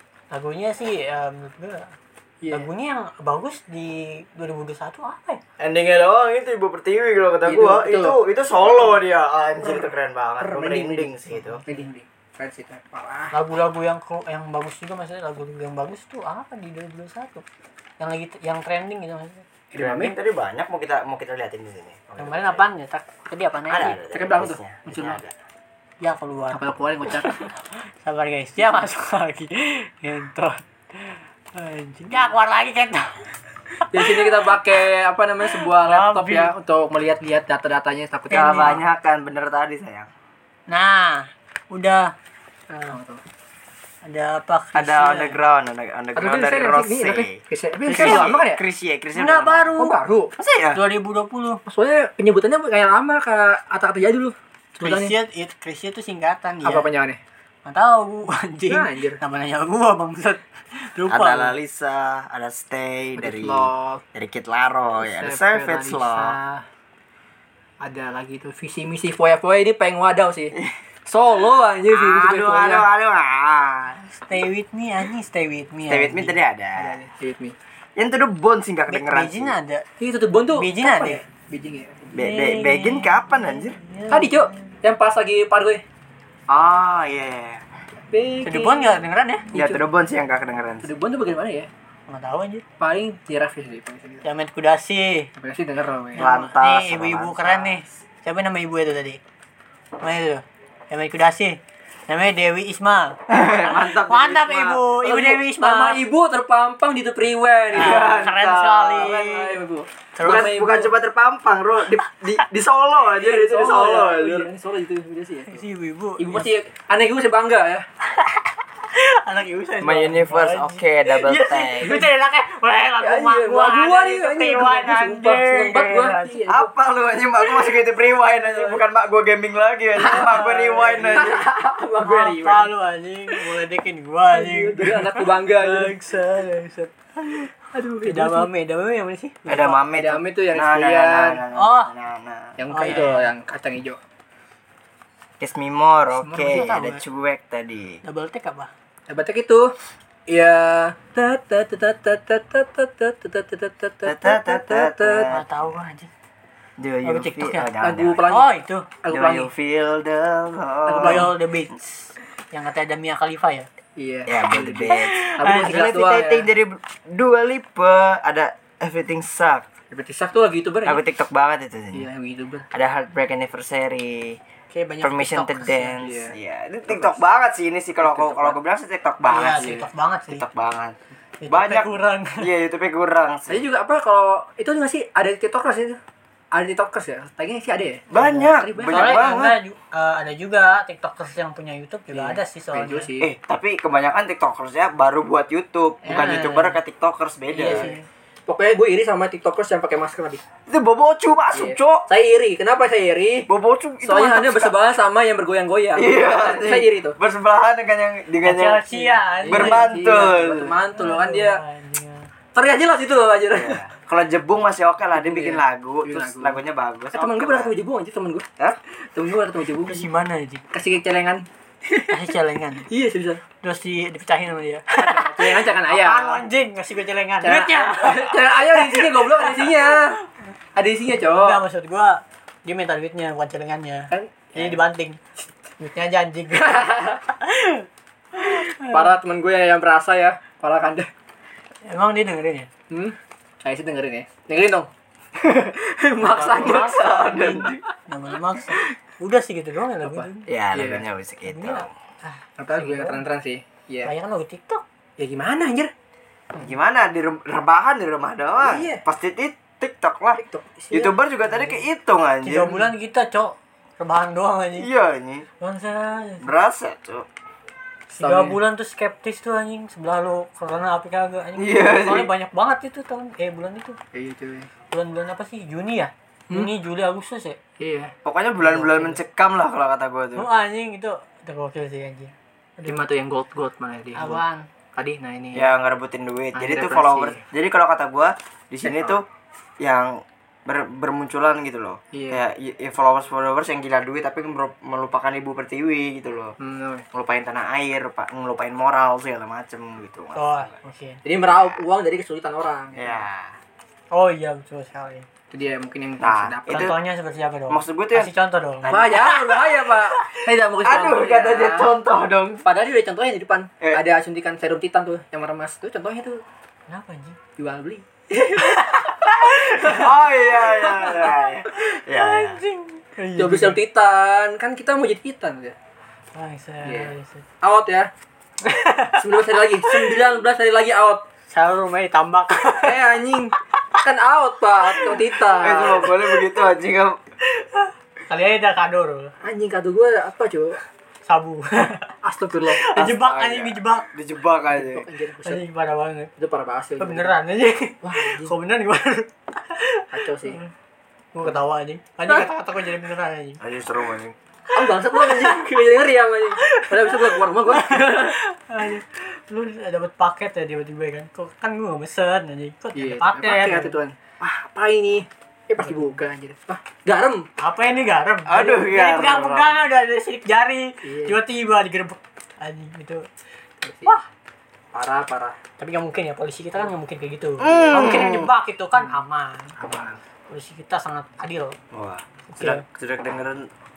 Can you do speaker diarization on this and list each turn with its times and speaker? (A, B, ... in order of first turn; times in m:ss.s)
0:00.3-0:01.9 A
0:02.4-0:02.7 B
0:02.5-0:05.4 A
0:05.6-0:11.6 C
0:07.4-0:09.0 B
0:09.6-0:13.3 B
0:13.3-0:17.4 A
0:18.0-0:19.4 A
0:19.7-0:20.2 B
0:19.8-0:22.6 C
0:22.2-0:24.0 A
0:23.7-0:25.4 C
0:24.1-0:25.2 B
0:26.0-0:34.6 A
0:26.5-0:27.4 B
0:33.9-0:38.8 B
0:35.4-0:36.5 A
0:38.3-0:38.8 A
0:38.3-0:40.1 C
0:40.7-0:42.1 A
0:42.7-0:43.2 B
0:44.0-0:45.4 A
0:44.7-0:47.4 C
0:46.2-0:48.6 B
0:47.9-0:48.3 A
0:47.9-0:49.7 C
0:49.1-0:50.0 A
0:49.8-0:50.3 B
0:50.4-0:50.8 C
0:50.7-0:51.6 A
0:51.6-0:55.1 B
0:54.8-0:56.8 A
0:56.6-0:57.2 B
0:57.6-1:01.5 A
0:58.6-0:59.2 B
1:01.1-1:06.4 C
1:03.2-1:04.0 B
1:05.0-1:06.6 B
1:07.8-1:12.9 B
1:11.9-1:14.0 C
1:14.0-1:16.4 A
1:15.9-1:17.0 C
1:16.7-1:17.6 B
1:18.0-1:19.5 C
1:18.9-1:19.8 A
1:20.0-1:22.1 B
1:20.6-1:21.2 A
1:22.1-1:23.8 C
1:22.2-1:24.7 A
1:24.1-1:25.8 B
1:26.5-1:27.6 C
1:28.1-1:29.0 B
1:28.4-1:29.5 A
1:29.5-1:29.8 B
1:29.5-1:30.9 C
1:30.8-1:31.7 B
1:32.1-1:32.6 A
1:32.8-1:34.2 B
1:34.2-1:35.3 A
1:35.4-1:36.3 B
1:36.2-1:37.9 C
1:36.2-1:39.2 A
1:40.0-1:46.0 A
1:43.3-1:44.8 C
1:45.0-1:48.3 B
1:47.7-1:49.1 C
1:47.7-1:49.6 A
1:48.9-1:50.9 B
1:50.2-1:50.6 A
1:50.2-1:54.5 C
1:53.0-1:55.6 B
1:55.5-1:56.5 A
1:56.2-1:57.9 B
1:58.1-2:06.4 A
1:59.8-2:02.0 C
2:01.8-2:02.1 B
2:03.0-2:06.7 B
2:06.5-2:11.4 C
2:08.4-2:08.8 B
2:10.0-2:12.7 B
2:10.0-2:11.3 A
2:12.0-2:17.5 A
2:14.3-2:15.9 B
2:17.7-2:18.5 B
2:18.0-2:19.8 A
2:19.5-2:22.6 C
2:19.9-2:21.4 B
2:21.5-2:21.9 A
2:22.6-2:24.0 B
2:22.7-2:23.3 A
2:25.4-2:28.0 C
2:26.2-2:26.8 B
2:26.5-2:27.0 A
2:28.0-2:28.7 A
2:29.1-2:29.7 B
2:30.3-2:35.3 B
2:34.0-2:35.4 C
2:35.3-2:36.1 A
2:36.8-2:38.2 C
2:37.0-2:37.7 A
2:37.8-2:38.5 B
2:38.3-2:38.9 A
2:39.0-2:39.5 B
2:39.1-2:41.3 C
2:40.9-2:41.3 B
2:41.0-2:43.7 A
2:44.0-2:46.5 B
2:44.3-2:49.6 C
2:44.9-2:45.7 A
2:49.9-2:51.0 B
2:50.8-2:52.1 C
2:51.9-2:52.7 B
2:52.7-2:54.4 C
2:54.7-2:55.9 A
2:55.0-3:01.0 C
2:56.0-2:56.3 B
2:56.9-2:57.2 B
2:58.0-2:58.6 B
2:59.3-3:00.4 A
3:01.4-3:02.5 A
3:01.5-3:03.6 C
3:03.5-3:06.0 B
3:06.5-3:09.2 B
3:08.1-3:09.6 C
3:08.9-3:13.1 A
3:12.1-3:13.3 B
3:13.2-3:17.9 C
3:16.0-3:16.8 A
3:17.5-3:18.0 A
3:17.6-3:20.4 B
3:20.7-3:22.0 C
3:21.5-3:23.5 B
3:23.5-3:24.7 C
3:24.0-3:27.2 B
3:26.0-3:28.8 C
3:28.4-3:29.9 A
3:28.9-3:31.6 B
3:29.4-3:30.7 C
3:30.9-3:32.3 A
3:32.5-3:33.8 B
3:33.5-3:37.7 C
3:35.1-3:36.6 B
3:37.1-3:38.4 B
3:39.1-3:40.1 B
3:39.8-3:40.6 A
3:40.7-3:42.2 B
3:42.0-3:42.9 A
3:42.9-3:43.4 B
3:43.6-3:50.2 A
3:44.9-3:46.4 B
3:47.4-3:50.2 B
3:50.7-3:51.6 B
3:51.2-3:55.2 A
3:54.1-3:54.8 B
3:55.8-3:59.1 A
3:56.5-3:57.2 B
3:58.8-4:01.1 B
4:01.8-4:02.7 A
4:02.9-4:07.0 B
4:06.2-4:10.5 A
4:06.3-4:07.8 C
4:10.0-4:11.0 B
4:10.5-4:11.9 C
4:11.4-4:13.2 A
4:12.6-4:14.1 B
4:14.0-4:14.8 A
4:15.2-4:15.9 B
4:16.6-4:22.8 C
4:18.6-4:19.0 B
4:20.4-4:21.1 B
4:21.4-4:21.8 A
4:22.4-4:24.9 A
4:24.8-4:25.4 C
4:25.6-4:26.5 A
4:26.4-4:27.3 C
4:28.1-4:28.6 B
4:28.2-4:34.0 A
4:31.6-4:32.3 C
4:34.1-4:34.7 B
4:34.9-4:37.6 A
4:37.8-4:39.1 B
4:38.2-4:40.5 C
4:40.4-4:43.1 A
4:42.9-4:44.4 B
4:44.1-4:44.7 A
4:44.9-4:45.7 B
4:45.5-4:49.2 C
4:46.5-4:47.4 B
4:48.8-4:49.2 B
4:49.8-4:56.5 C
4:52.1-4:52.4 B
4:56.6-4:57.0 B
4:57.1-5:00.8 C
5:00.3-5:01.2 A
5:01.2-5:03.2 B
5:01.5-5:01.8 C
5:03.0-5:03.5 C
5:04.1-5:05.3 A
5:05.5-5:06.9 B
5:06.2-5:07.0 C
5:06.7-5:10.4 A
5:07.7-5:09.3 C
5:08.9-5:11.9 B
5:10.8-5:12.6 C
5:12.6-5:16.4 B
5:16.9-5:17.4 A
5:17.6-5:18.9 B
5:18.6-5:20.0 A
5:19.6-5:20.1 B
5:19.8-5:22.6 C
5:20.8-5:21.2 B
5:21.7-5:23.8 A
5:23.4-5:25.7 B
5:26.3-5:27.4 A
5:26.8-5:28.1 B
5:28.6-5:30.2 A
5:29.2-5:31.2 B
5:31.5-5:33.0 A
5:32.7-5:36.2 B
5:34.9-5:35.2 A
5:35.6-5:37.2 C
5:37.6-5:39.3 A
5:39.4-5:40.8 B
5:41.2-5:42.1 A
5:42.2-5:42.9 B
5:42.7-5:44.1 A
5:42.9-5:45.0 C
5:44.7-5:45.6 B
5:45.4-5:46.3 A
5:46.4-5:47.4 B
5:47.0-5:50.7 A
5:48.0-5:48.5 B
5:50.1-5:50.6 B
5:51.3-5:53.6 A
5:53.6-5:54.4 C
5:54.7-5:58.4 B
5:54.7-5:55.6 A
5:56.6-6:03.9 A
6:03.0-6:07.5 B
6:05.8-6:06.1 A
6:07.6-6:13.3 A
6:08.4-6:09.8 C
6:11.0-6:11.4 B
6:13.8-6:14.2 B
6:14.9-6:15.6 B
6:15.8-6:19.8 A
6:17.6-6:18.5 C
6:19.8-6:20.2 B
6:20.5-6:21.8 A
6:21.9-6:23.7 C
6:22.5-6:22.8 A